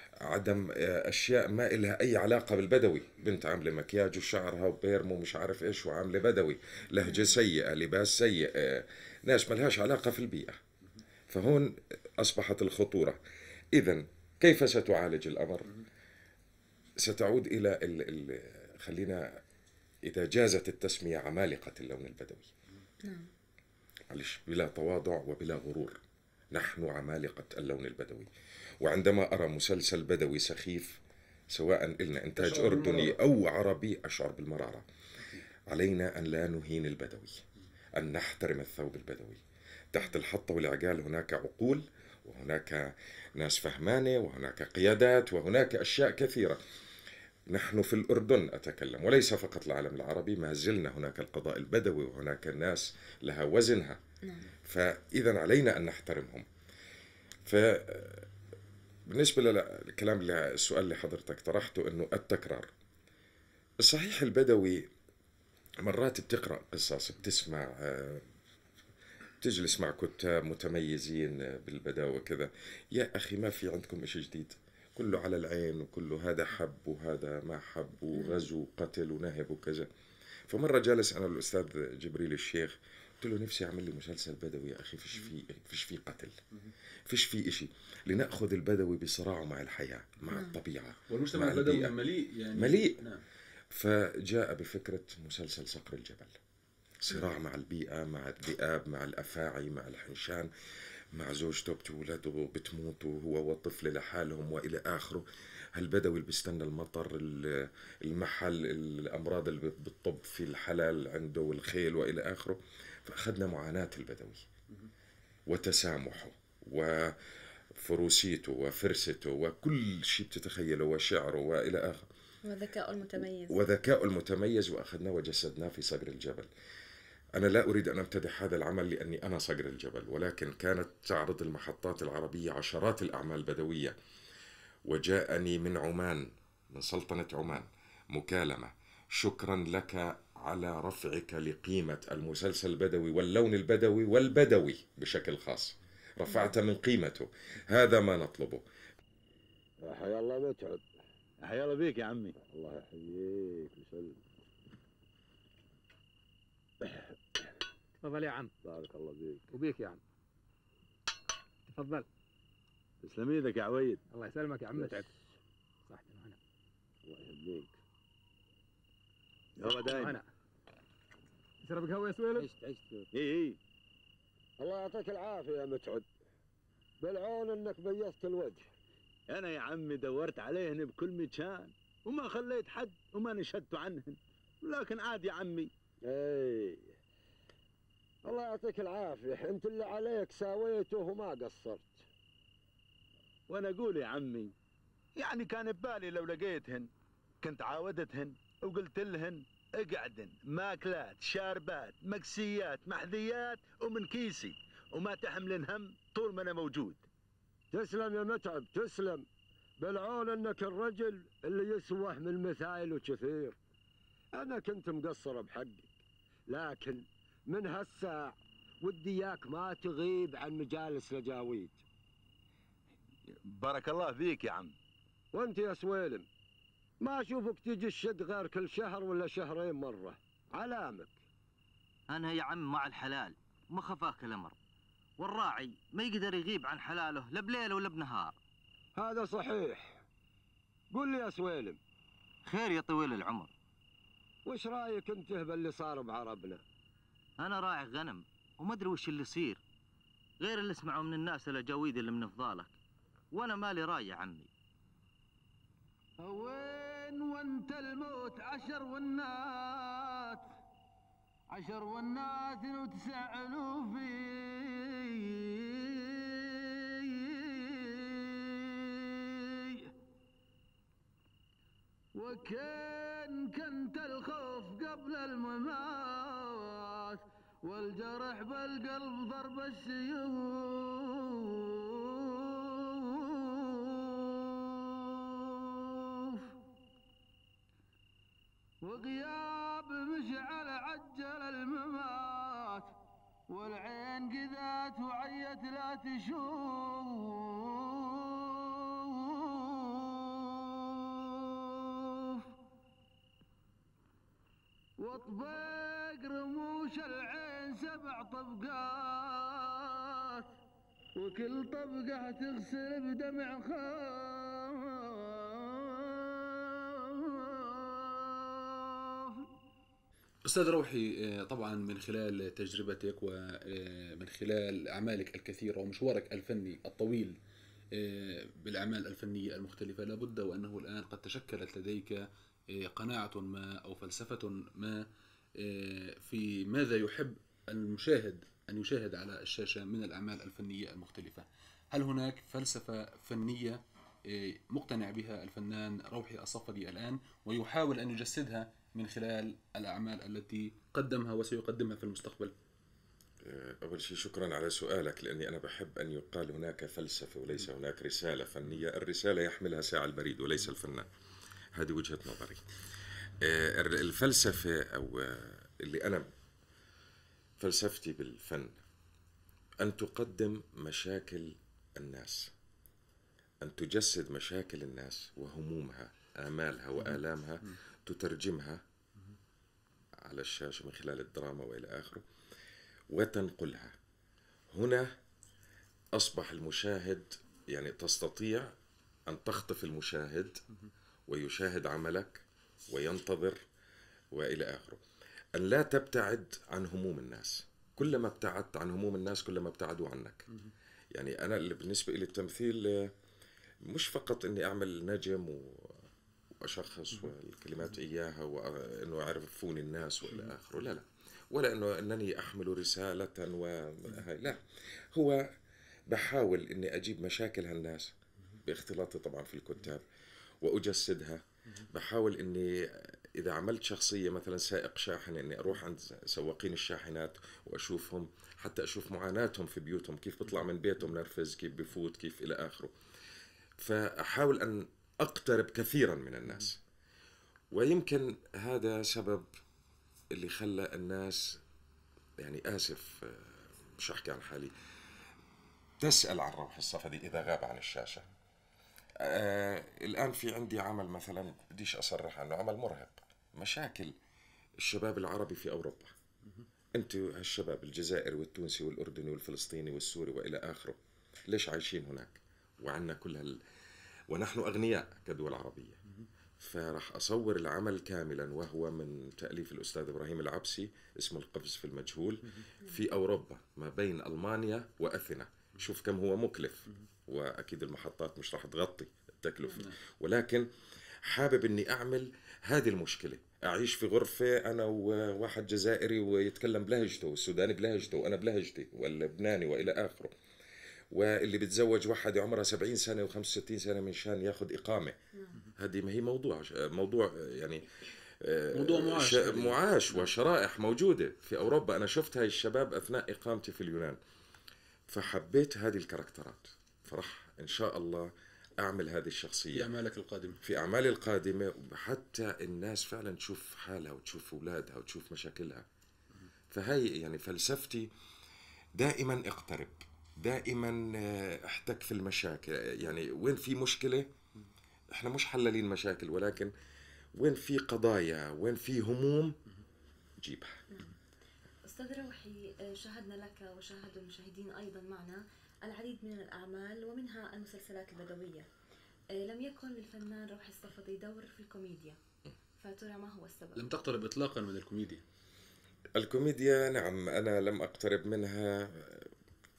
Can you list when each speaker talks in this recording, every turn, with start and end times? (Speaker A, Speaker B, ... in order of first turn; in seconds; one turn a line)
Speaker A: 0.2-10.6
Speaker B: 7.0-7.4
Speaker A: 11.3-13.2
Speaker A: 13.8-15.8
Speaker A: 17.0-19.4
Speaker A: 20.1-22.5
Speaker B: 23.0-23.3
Speaker A: 24.1-26.0
Speaker A: 26.5-31.0
Speaker A: 31.5-34.9
Speaker C: 32.4-33.2
Speaker A: 35.7-37.4
Speaker A: 38.0-39.4
Speaker A: 39.9-46.6
Speaker A: 47.5-54.0
Speaker A: 54.6-56.5
Speaker A: 57.5-58.3
Speaker A: 59.1-62.7
Speaker A: 63.8-64.9
Speaker A: 65.8-68.3
Speaker A: 69.4-79.9
Speaker A: 80.5-86.4
Speaker A: 87.1-92.0
Speaker B: 90.3-90.6
Speaker C: 91.1-93.2
Speaker A: 92.5-93.0
Speaker A: 93.7-96.4
Speaker A: 97.0-100.5
Speaker A: 101.1-114.5
Speaker A: 115.5-117.2
Speaker A: 117.7-122.1
Speaker B: 122.5-123.6
Speaker A: 123.5-126.5
Speaker A: 127.4-133.9
Speaker A: 134.9-148.7
Speaker B: 146.3-146.5
Speaker D: 149.8-150.8
Speaker E: 151.4-152.4
Speaker D: 152.5-154.1
Speaker F: 158.1-158.5
Speaker E: 158.7-159.4
Speaker F: 159.5-160.0
Speaker F: 161.7-162.0
Speaker E: 163.0-164.0
Speaker F: 164.1-165.1
Speaker F: 165.9-166.3
Speaker D: 167.2-167.6
Speaker E: 169.6-170.2
Speaker F: 169.8-170.2
Speaker F: 171.7-172.5
Speaker E: 173.1-173.6
Speaker D: 174.6-176.1
Speaker D: 177.0-178.7
Speaker E: 179.3-185.7
Speaker D: 186.0-186.9
Speaker D: 188.2-192.1
Speaker E: 193.5-194.5
Speaker E: 195.2-196.9
Speaker E: 197.4-207.0
Speaker D: 207.7-209.3
Speaker D: 209.8-213.6
Speaker D: 214.3-215.9
Speaker D: 216.5-221.8
Speaker E: 223.4-224.7
Speaker D: 225.3-226.3
Speaker D: 227.0-231.2
Speaker G: 232.1-234.6
Speaker G: 235.2-238.4
Speaker D: 239.0-240.0
Speaker D: 240.9-241.8
Speaker G: 242.5-243.5
Speaker D: 244.5-246.6
Speaker G: 247.4-249.6
Speaker G: 250.4-252.8
Speaker G: 253.3-254.5
Speaker H: 256.2-260.5
Speaker H: 261.5-269.9
Speaker H: 272.1-286.5
Speaker H: 288.8-292.9
Speaker H: 293.5-302.5
Speaker H: 305.0-310.5
Speaker H: 311.2-319.5
Speaker C: 320.5-327.4
Speaker C: 327.9-335.1
Speaker C: 335.6-352.5
Speaker A: 353.4-361.1
Speaker A: 361.8-362.6
Speaker A: 363.4-366.3
Speaker A: 367.6-368.8
Speaker A: 369.8-372.5
Speaker A: 373.6-378.8
Speaker A: 380.2-382.3
Speaker A: 383.1-383.9
Speaker A: 384.7-385.1
Speaker A: 386.2-388.7
Speaker A: 389.3-390.6
Speaker A: 391.3-393.6
Speaker A: 394.3-395.0
Speaker A: 395.6-400.5
Speaker A: 401.1-403.1
Speaker A: 403.9-406.0
Speaker A: 406.6-414.6
Speaker A: 415.1-415.5
Speaker A: 416.1-418.1
Speaker A: 418.7-420.1
Speaker A: 420.6-432.9
Speaker A: 433.8-436.8
Speaker A: 437.7-439.5
Speaker A: 440.3-441.6
Speaker A: 442.4-444.7
Speaker A: 446.0-448.3
Speaker A: 449.2-454.2
Speaker A: 454.8-456.1
Speaker A: 456.9-463.6
Speaker A: 464.3-466.0
Speaker A: 466.6-480.7
Speaker A: 481.2-490.3
Speaker A: 491.1-495.2
Speaker A: 495.8-504.2
Speaker C: 498.7-500.3
Speaker A: 505.1-509.9
Speaker C: 509.7-510.6
Speaker A: 510.6-515.9
Speaker A: 516.7-518.1
Speaker A: 519.0-524.3
Speaker A: 525.1-526.7
Speaker A: 527.4-529.6
Speaker A: 530.4-530.8
Speaker B: 531.9-538.7
Speaker B: 539.3-542.2
Speaker B: 542.8-543.9
Speaker C: 543.8-545.2
Speaker A: 546.2-549.3